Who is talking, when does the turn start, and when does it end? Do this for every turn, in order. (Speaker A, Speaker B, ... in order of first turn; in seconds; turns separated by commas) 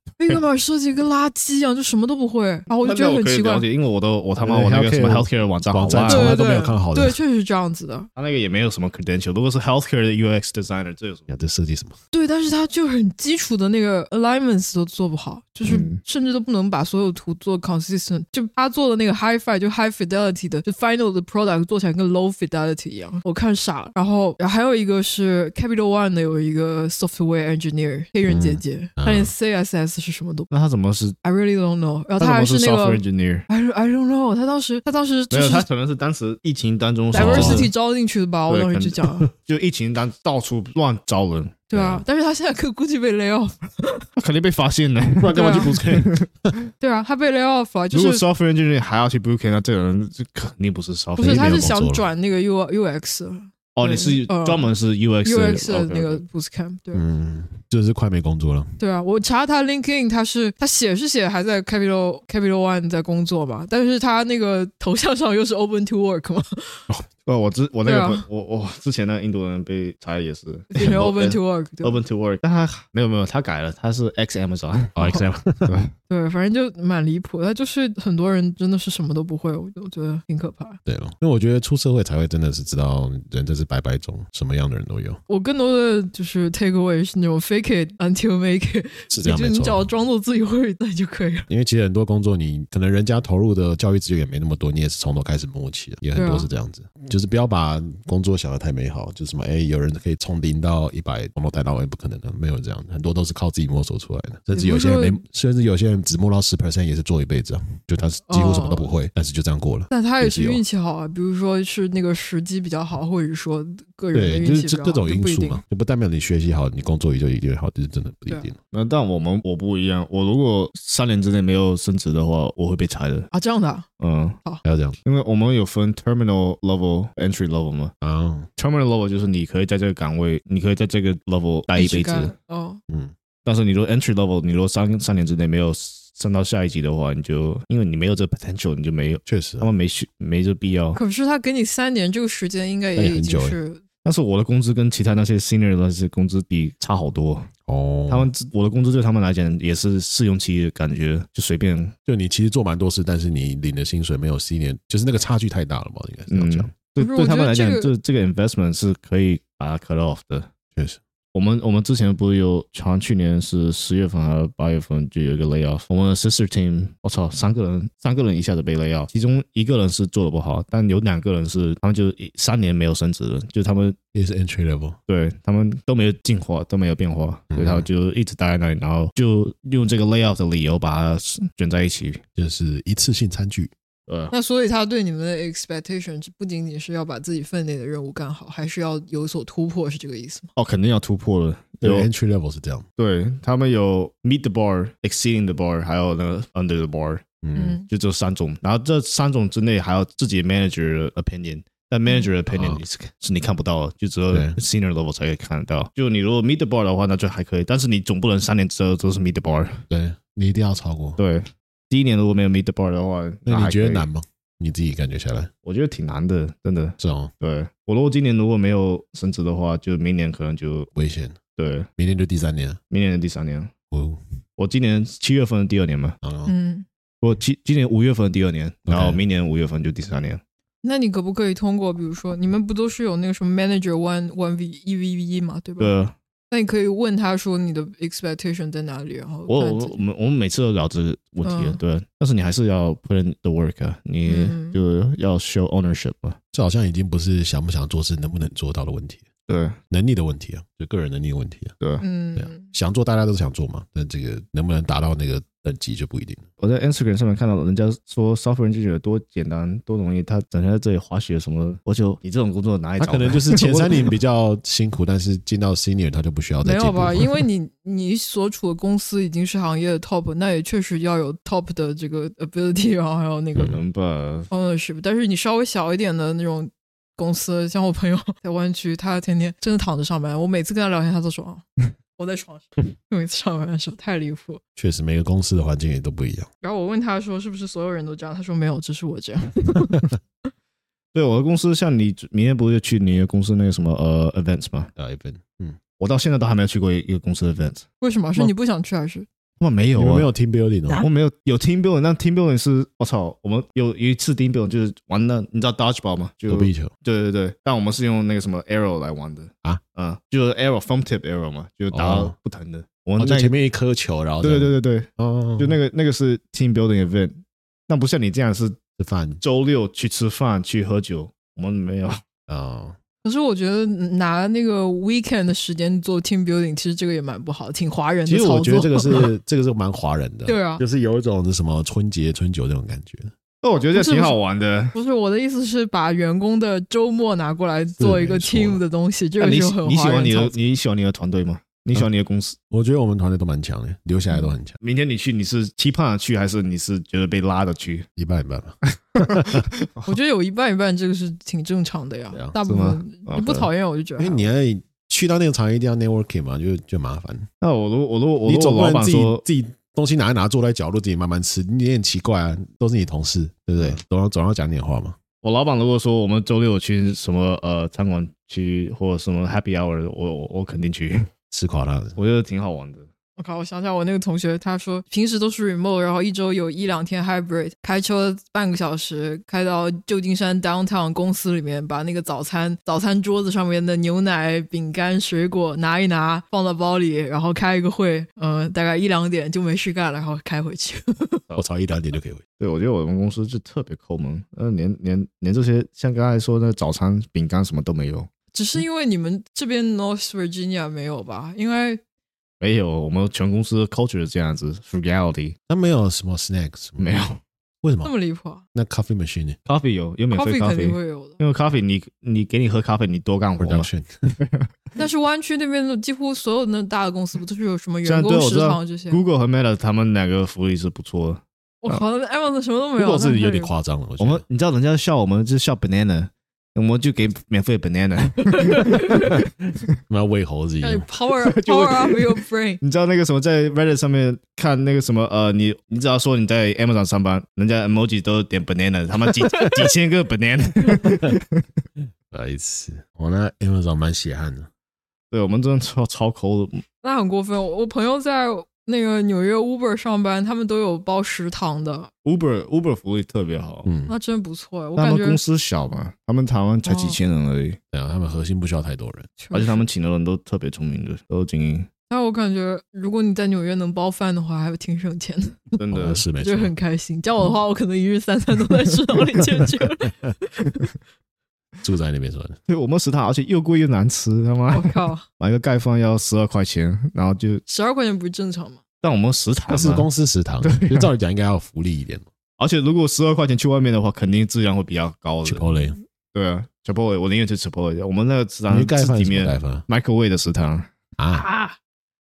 Speaker A: 0.2-3.7, Speaker B: 2.8-6.4, Speaker C: 4.4-7.2, Speaker A: 6.1-8.1, Speaker B: 8.2-11.3, Speaker C: 11.3-11.9, Speaker A: 12.1-30.5, Speaker B: 15.7-16.0, Speaker C: 28.3-29.3, Speaker B: 30.5-31.2, Speaker A: 31.2-35.7, Speaker B: 32.2-33.5, Speaker B: 35.3-37.7, Speaker A: 37.1-39.3, Speaker C: 37.1-37.6, Speaker B: 38.5-41.7, Speaker A: 41.7-44.1, Speaker C: 41.7-42.0, Speaker B: 44.2-46.7, Speaker C: 45.2-46.5, Speaker A: 45.4-45.8, Speaker A: 46.8-48.2, Speaker B: 47.9-51.7, Speaker A: 51.2-54.7, Speaker C: 51.2-52.1, Speaker B: 53.8-56.2, Speaker A: 55.2-57.0, Speaker C: 56.9-58.8, Speaker A: 58.8-66.8, Speaker B: 67.3-75.9, Speaker A: 67.8-68.2, Speaker A: 70.7-72.0, Speaker C: 75.0-75.8, Speaker A: 76.1-80.8, Speaker C: 80.9-85.2, Speaker A: 85.3-91.5, Speaker C: 89.1-89.9, Speaker C: 91.5-110.6, Speaker A: 96.2-96.5, Speaker A: 104.5-105.2, Speaker A: 108.3-108.9, Speaker A: 109.9-115.6, Speaker C: 114.1-118.6, Speaker B: 118.7-123.3, Speaker A: 123.3-123.9, Speaker B: 124.0-124.4, Speaker C: 124.6-125.0, Speaker B: 125.0-127.9, Speaker C: 128.0-128.5, Speaker B: 128.6-132.3, Speaker A: 131.8-132.8, Speaker B: 133.4-141.0, Speaker C: 139.3-139.7, Speaker A: 140.9-143.8, Speaker C: 143.0-143.6, Speaker B: 144.1-147.5, Speaker C: 147.7-148.3, Speaker B: 148.1-151.9, Speaker C: 152.1-156.7, Speaker B: 156.3-160.5, Speaker A: 157.0-157.9, Speaker C: 160.8-161.0, Speaker B: 161.3-174.0, Speaker C: 174.1-175.0, Speaker B: 175.1-182.2, Speaker C: 177.5-177.9, Speaker C: 182.4-183.7, Speaker B: 184.1-184.3, Speaker A: 184.3-190.5, Speaker B: 190.6-192.1, Speaker C: 191.8-192.9, Speaker B: 193.0-197.2, Speaker C: 197.4-197.8, Speaker A: 197.6-197.9, Speaker B: 197.9-209.8, Speaker C: 202.5-202.8, Speaker C: 204.3-204.6, Speaker C: 209.9-211.2, Speaker B: 211.2-214.1, Speaker C: 213.5-215.5, Speaker B: 215.7-220.9, Speaker C: 217.0-217.3, Speaker C: 220.9-221.4, Speaker B: 221.6-221.9, Speaker C: 222.0-222.8, Speaker B: 222.9-223.7, Speaker C: 223.9-224.2, Speaker B: 224.6-226.2, Speaker C: 226.2-226.5, Speaker A: 226.5-226.9, Speaker B: 227.2-230.4, Speaker C: 228.9-229.2, Speaker A: 230.8-235.9, Speaker B: 235.8-236.2, Speaker A: 236.5-240.0, Speaker B: 239.5-246.4, Speaker A: 241.4-241.8, Speaker A: 244.3-244.8, Speaker C: 246.5-249.3, Speaker B: 249.5-249.8, Speaker C: 249.9-251.8, Speaker A: 252.0-252.7, Speaker C: 252.4-256.4, Speaker B: 256.6-264.1, Speaker C: 263.0-267.4, Speaker A: 266.6-273.8, Speaker B: 273.6-274.5, Speaker A: 274.5-284.6, Speaker C: 284.8-286.5, Speaker A: 286.6-290.1, Speaker B: 291.1-294.9, Speaker C: 295.0-295.8, Speaker B: 296.0-297.9, Speaker A: 298.0-299.3, Speaker B: 299.6-300.3, Speaker C: 300.0-301.1, Speaker B: 300.9-313.5, Speaker C: 306.5-306.9, Speaker C: 311.9-312.3, Speaker C: 313.2-315.8, Speaker B: 314.4-318.8, Speaker C: 319.0-319.4, Speaker B: 319.4-322.2, Speaker C: 322.5-323.0, Speaker A: 323.2-329.3, Speaker C: 328.3-333.3, Speaker A: 330.5-330.8, Speaker B: 333.6-334.9, Speaker A: 333.9-334.4, Speaker A: 334.9-340.5, Speaker C: 338.0-338.8, Speaker B: 339.4-342.6, Speaker C: 342.7-344.8, Speaker B: 344.8-348.1, Speaker C: 348.2-349.7, Speaker B: 349.1-350.1, Speaker A: 350.1-354.5, Speaker B: 352.7-353.7, Speaker C: 354.2-357.5, Speaker B: 357.6-359.4, Speaker C: 358.4-365.2, Speaker B: 365.4-371.3, Speaker C: 371.5-372.2, Speaker B: 372.2-373.1, Speaker A: 373.4-391.4, Speaker C: 391.5-392.4, Speaker B: 392.6-398.3, Speaker A: 398.5-402.0, Speaker B: 402.6-405.6, Speaker C: 405.7-407.3, Speaker B: 407.0-407.4, Speaker C: 407.8-408.1, Speaker A: 408.0-408.6, Speaker C: 408.7-409.6, Speaker B: 409.7-414.7, Speaker A: 410.3-411.4, Speaker C: 413.6-414.4, Speaker A: 415.0-419.2, Speaker B: 418.0-422.0, Speaker A: 421.8-423.7, Speaker C: 423.0-424.4, Speaker B: 424.2-429.4, Speaker A: 428.5-429.4, Speaker C: 430.1-431.1, Speaker A: 430.8-432.8, Speaker B: 431.4-432.3, Speaker B: 432.8-441.6, Speaker C: 442.3-444.7, Speaker B: 445.3-446.8, Speaker A: 447.0-452.1, Speaker B: 452.2-453.9, Speaker C: 453.9-454.1, Speaker A: 454.1-455.4, Speaker B: 455.0-457.8, Speaker A: 456.8-457.2, Speaker C: 457.9-459.4, Speaker A: 459.4-459.9, Speaker B: 459.5-461.9, Speaker A: 462.1-465.8, Speaker B: 465.8-466.2, Speaker C: 465.9-466.7, Speaker A: 466.4-470.9, Speaker C: 471.8-472.6, Speaker B: 472.7-477.6, Speaker A: 474.7-475.2, Speaker A: 477.7-478.8, Speaker B: 479.0-480.1, Speaker C: 479.7-482.2, Speaker B: 480.6-481.1, Speaker B: 482.6-485.6, Speaker C: 485.4-486.0, Speaker B: 486.3-490.9, Speaker C: 488.7-489.9, Speaker C: 491.2-491.5